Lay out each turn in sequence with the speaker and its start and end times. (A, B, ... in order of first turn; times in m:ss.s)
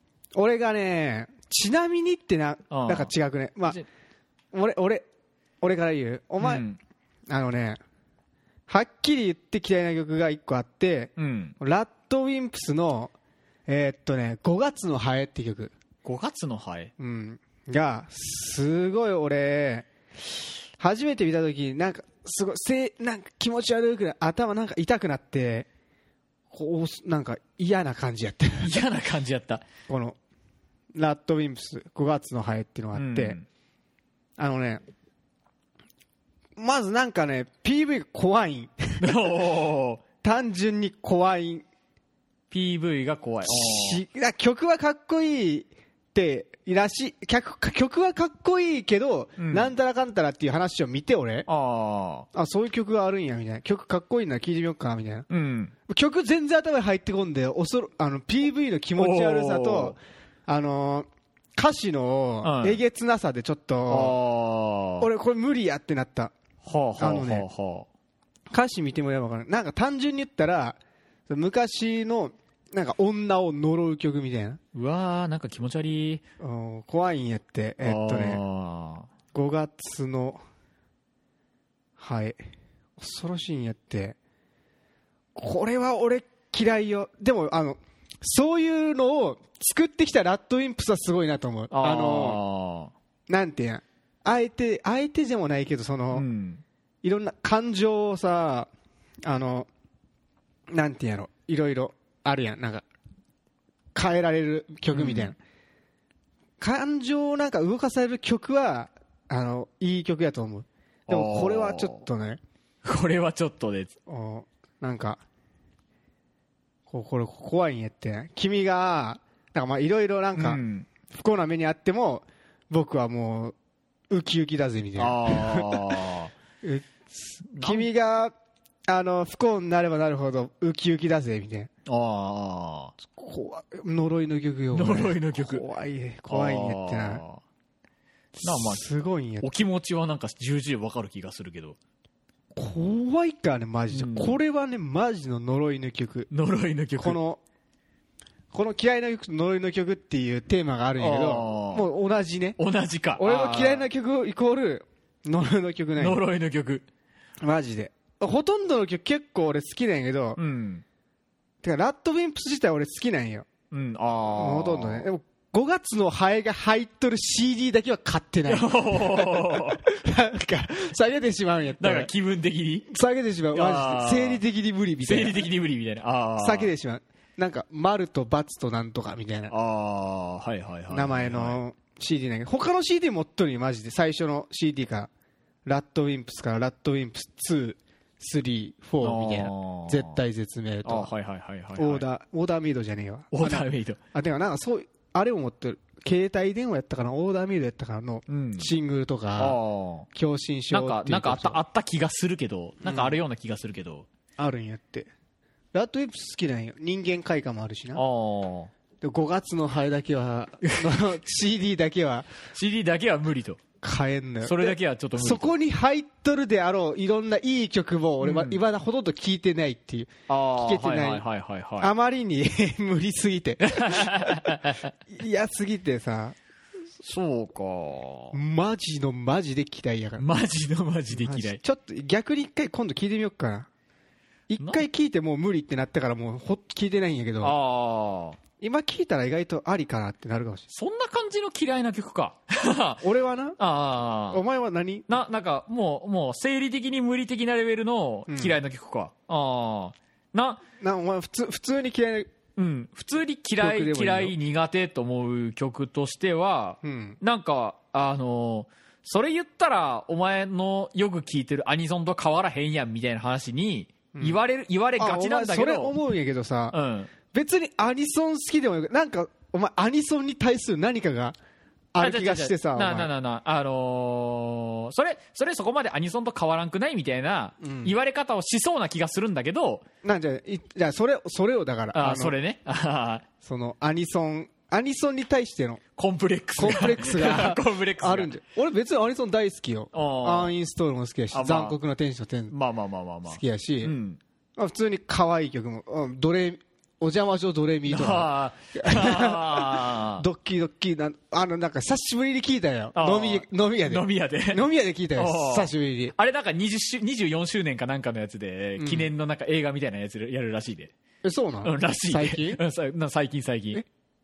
0:00.4-0:03.8 A
0:02.7-0:03.1 B
0:04.5-0:05.0 A
0:05.6-0:06.6 A
0:06.4-0:06.8 B
0:07.3-0:07.8 A
0:08.7-0:13.1 A
0:11.2-0:11.6 B
0:13.7-0:15.7 A
0:16.0-0:16.9 B
0:17.0-0:25.7 A
0:26.5-0:28.7 A
0:28.6-0:29.6 B
0:29.9-0:30.2 A
0:31.0-0:33.4 A
0:33.0-0:33.4 B
0:34.4-0:34.8 A
0:36.6-0:39.1 A
0:39.0-0:40.0 B
0:40.2-0:41.6 A
0:42.5-0:44.0 B
0:43.4-0:51.5 A
0:49.4-0:49.7 B
0:51.5-0:52.3 B
0:52.3-0:55.3 A
0:55.3-0:55.7 B
0:55.9-1:04.2 A
0:59.0-1:00.0 B
1:02.4-1:02.8 B
1:03.9-1:05.1 B
1:05.0-1:06.3 A
1:06.6-1:07.9 B
1:07.0-1:07.4 A
1:08.5-1:14.6 A
1:14.8-1:16.2 B
1:16.4-1:18.4 A
1:17.8-1:19.1 B
1:19.3-1:20.4 A
1:22.0-1:22.4 A
1:23.0-1:24.2 A
1:25.4-1:32.4 A
1:31.7-1:32.9 B
1:33.3-1:36.3 A
1:36.1-1:36.6 B
1:37.0-1:38.7 A
1:39.2-1:39.7 A
1:40.7-1:42.8 A
1:43.9-1:45.4 A
1:44.9-1:45.3 B
1:46.6-1:52.4 A
1:51.1-1:52.0 B
1:52.8-1:53.9 B
1:54.1-1:55.2 A
1:56.9-2:03.6 A
2:00.3-2:00.9 B
2:04.1-2:05.8 A
2:05.0-2:06.3 B
2:06.6-2:08.3 A
2:07.4-2:07.9 B
2:08.9-2:11.7 A
2:11.9-2:12.9 B
2:13.1-2:17.2 A
2:14.7-2:15.6 B
2:16.3-2:17.4 B
2:18.4-2:19.5 A
2:18.4-2:18.9 B
2:19.4-2:21.8 B
2:22.5-2:26.3 A
2:23.9-2:24.4 B
2:26.3-2:27.2 B
2:27.0-2:27.4 A
2:28.5-2:32.6 A
2:31.0-2:31.9 B
2:32.6-2:33.9 B
2:33.2-2:36.2 A
2:36.0-2:36.8 B
2:37.4-2:40.4 A
2:40.4-2:40.8 B
2:41.6-2:43.5 A
2:43.7-2:45.1 B
2:44.4-2:52.1 A
2:48.5-2:49.8 B
2:51.8-2:52.9 B
2:52.9-2:55.4 A
2:53.5-2:54.4 B
2:55.0-2:56.7 B
2:56.4-2:59.5 A
2:59.5-3:01.6 B
3:00.9-3:05.1 A
3:05.7-3:11.1 A
3:09.0-3:10.2 B
3:10.8-3:12.1 B
3:11.8-3:19.6 A
3:13.3-3:14.0 B
3:18.3-3:18.7 B
3:19.4-3:20.1 B
3:20.1-3:21.6 A
3:20.7-3:24.1 B
3:22.8-3:23.2 A
3:24.4-3:25.1 A
3:25.7-3:28.0 A
3:27.9-3:28.7 B
3:29.0-3:32.3 A
3:30.6-3:30.9 B
3:32.5-3:33.6 B
3:33.8-3:41.2 A
3:34.4-3:35.5 B
3:38.2-3:38.6 B
3:40.3-3:41.9 B
3:41.8-3:44.6 A
3:43.6-3:44.9 B
3:45.1-3:46.4 A
3:47.0-3:48.4 B
3:48.3-3:50.2 A
3:50.2-3:51.6 B
3:51.1-3:53.7 A
3:54.5-3:57.5 A
3:54.6-3:54.8 B
3:57.4-3:58.4 B
3:58.6-4:00.7 A
4:00.7-4:03.0 B
4:03.0-4:03.6 A
4:03.6-4:04.4 B
4:04.3-4:05.1 A
4:05.1-4:10.6 B
4:08.3-4:08.6 A
4:10.8-4:12.3 A
4:12.6-4:26.0 B
4:13.6-4:14.3 A
4:16.8-4:17.2 A
4:24.1-4:24.4 A
4:25.0-4:26.8 A
4:26.7-4:27.1 B
4:27.3-4:31.4 A
4:31.9-4:33.1 A
4:32.0-4:39.8 B
4:37.6-4:37.9 A
4:40.0-4:42.3 A
4:41.9-4:43.2 B
4:43.4-4:45.8 A
4:46.0-4:48.3 B
4:46.6-4:52.6 A
4:49.9-4:50.5 B
4:51.3-4:51.8 B
4:52.5-4:54.2 B
4:53.3-4:53.9 A
4:54.6-5:06.1 A
4:57.9-5:00.2 B
5:02.9-5:04.6 B
5:05.2-5:10.9 B
5:08.8-5:09.1 A
5:11.2-5:12.6 A
5:11.6-5:13.8 B